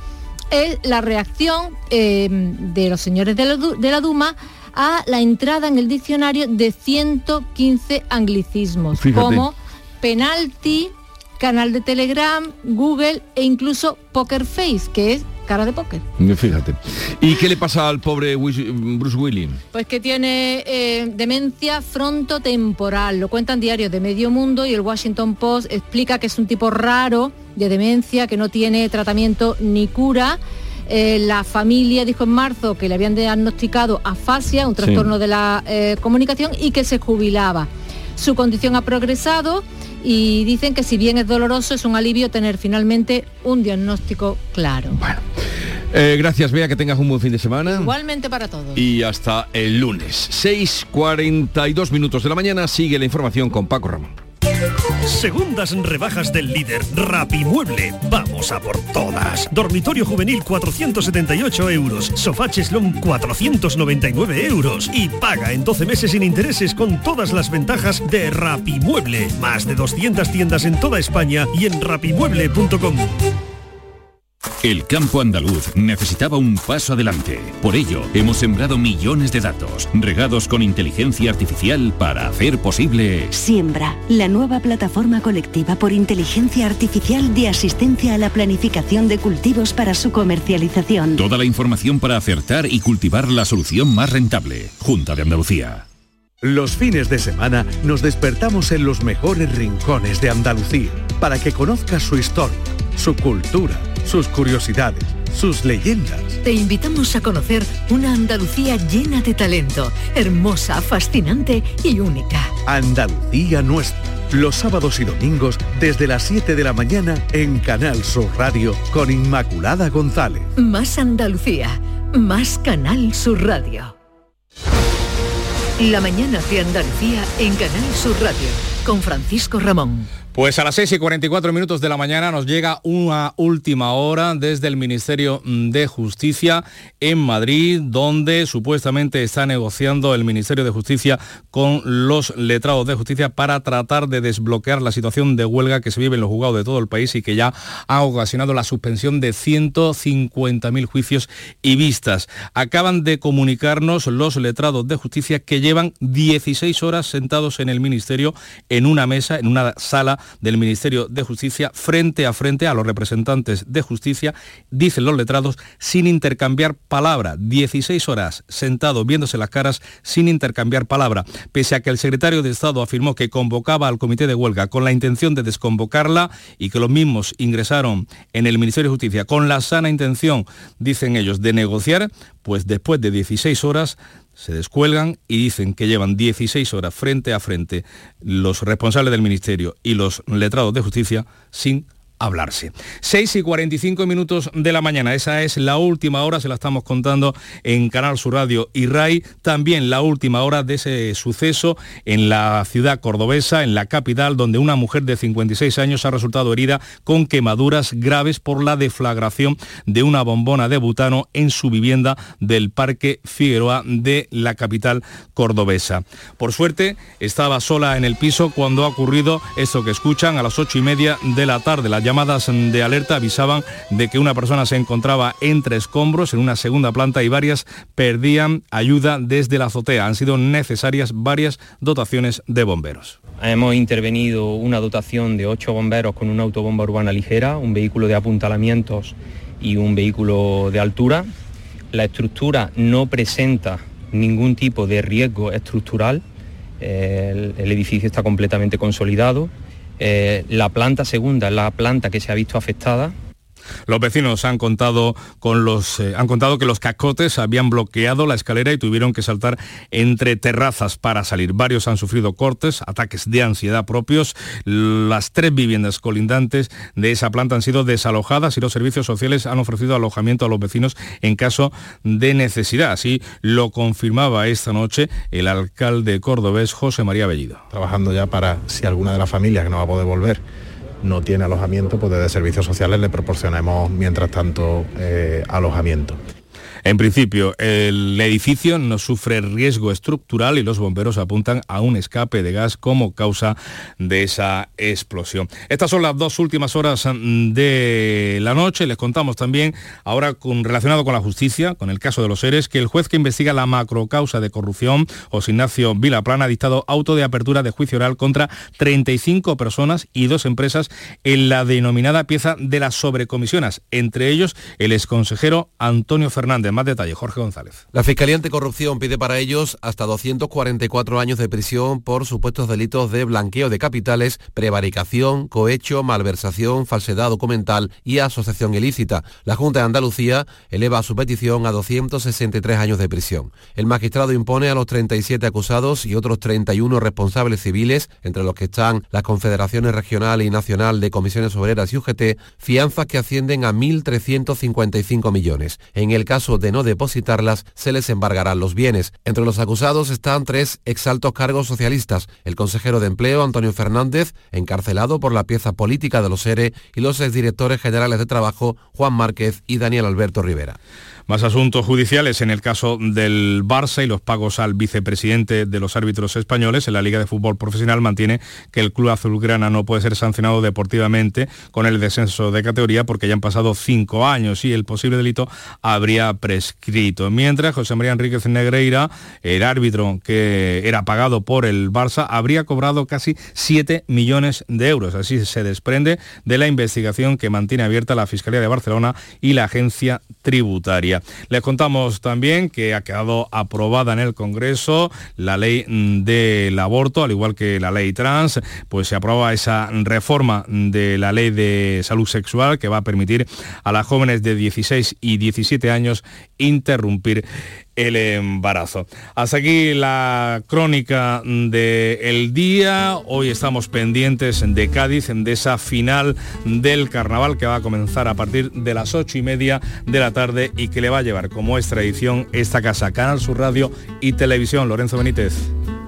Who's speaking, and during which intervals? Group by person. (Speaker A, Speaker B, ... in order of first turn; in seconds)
Speaker A: 0.5-16.0, 19.7-45.0, 47.7-48.8
Speaker B: 9.0-9.4, 16.2-19.6, 34.8-35.1, 44.9-45.2, 45.9-47.9, 48.8-54.1
Speaker C: 55.1-73.1
Speaker D: 74.6-83.3, 91.2-95.8
Speaker E: 83.3-91.2
Speaker F: 96.4-106.3, 112.7-120.5
Speaker G: 106.4-112.5, 120.6-123.9, 125.8-130.1
Speaker H: 130.3-233.2, 253.9-277.6, 286.9-317.8, 361.3-407.4, 408.0-425.7
Speaker I: 233.4-241.3, 241.9-246.2, 246.8-253.2
Speaker J: 277.7-280.4, 281.0-286.2
Speaker K: 317.9-360.8